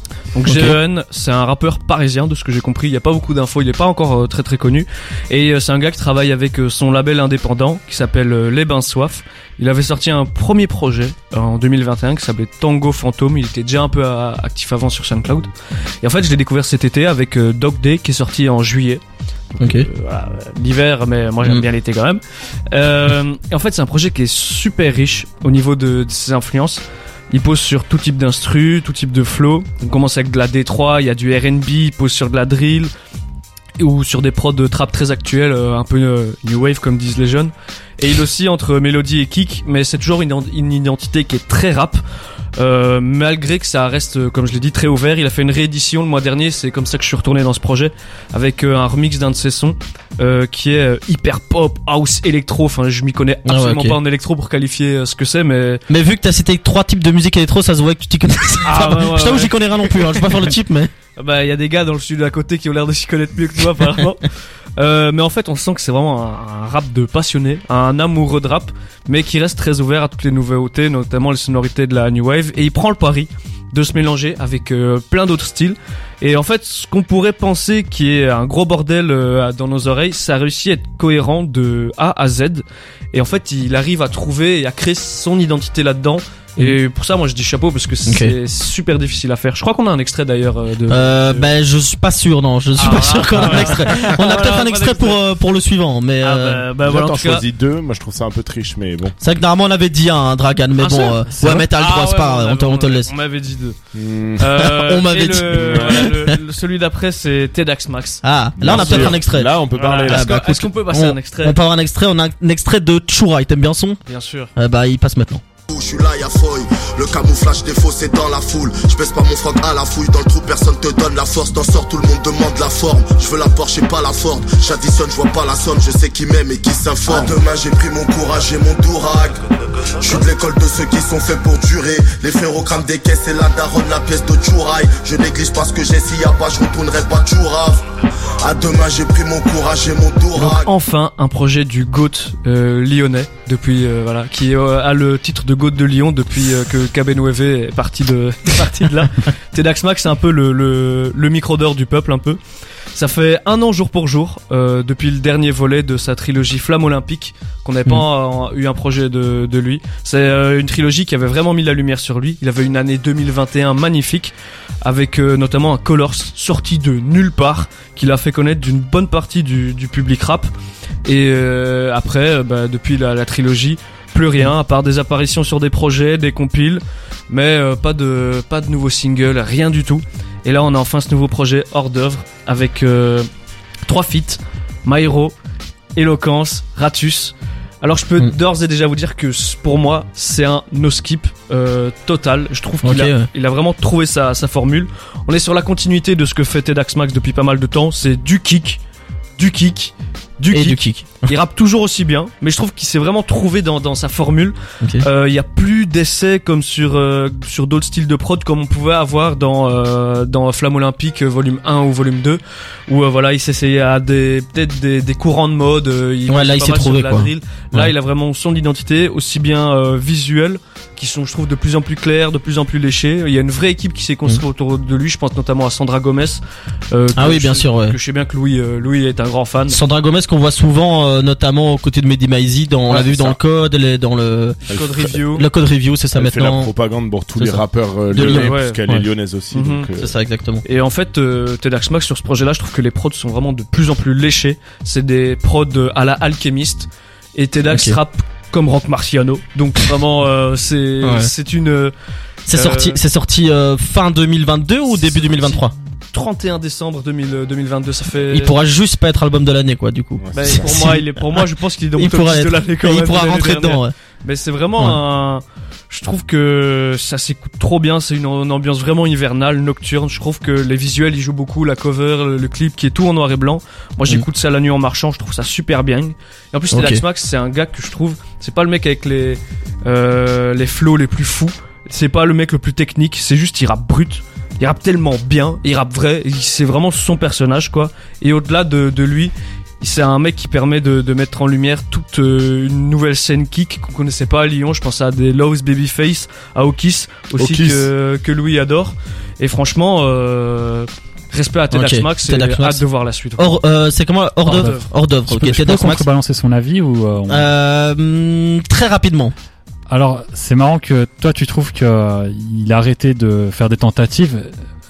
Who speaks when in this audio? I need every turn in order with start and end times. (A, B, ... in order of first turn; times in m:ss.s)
0:00.3-0:15.5 A
0:00.4-0:00.8 B
0:16.0-0:19.0 A
0:19.5-0:32.9 A
0:19.6-0:19.9 B
0:33.8-0:42.0 A
0:42.6-0:55.8 A
0:53.4-0:54.0 B
0:55.9-1:00.9 B
0:58.6-1:00.2 A
1:01.2-1:31.5 A
1:28.1-1:28.4 B
1:30.9-1:36.7 B
1:32.8-1:35.2 A
1:36.2-1:37.4 A
1:36.8-1:39.1 C
1:39.2-1:43.1 B
1:40.8-1:43.8 A
1:41.4-1:41.6 D
1:43.9-1:44.5 C
1:44.4-1:49.2 A
1:44.5-1:46.2 B
1:45.5-1:46.1 C
1:48.2-1:54.0 B
1:48.6-1:50.3 C
1:49.7-1:51.6 A
1:54.1-1:54.5 A
1:54.6-1:55.4 B
1:55.7-2:09.4 E
2:10.0-2:17.8 E
2:18.4-2:20.7 E
2:20.4-2:32.4 A
2:32.9-2:50.5 A
2:51.0-3:03.3 A
3:03.8-3:05.3 A
3:06.0-3:18.8 A
3:12.8-3:13.3 B
3:19.4-3:49.8 A
3:20.5-3:21.3 B
3:24.8-3:25.1 B
3:36.3-3:37.3 B
3:47.1-3:48.0 B
3:49.7-3:56.7 B
3:52.9-3:53.4 A
3:54.7-3:55.4 A
3:56.1-4:00.1 C
3:57.4-3:58.6 B
3:58.2-3:58.8 A
3:59.5-3:59.9 A
4:00.0-4:00.6 B
4:00.6-4:11.9 A
4:07.7-4:08.0 B
4:11.0-4:11.3 B
4:12.5-4:15.7 B
4:12.5-4:13.0 A
4:14.9-4:18.5 A
4:18.3-4:21.4 B
4:20.2-4:20.7 C
4:20.3-5:03.6 A
4:22.0-4:23.9 B
4:36.7-4:37.0 B
4:57.4-4:57.9 C
5:01.7-5:02.8 B
5:03.4-5:06.1 B
5:04.4-5:04.9 A
5:05.3-5:07.5 D
5:07.3-5:09.3 B
5:09.9-5:14.5 D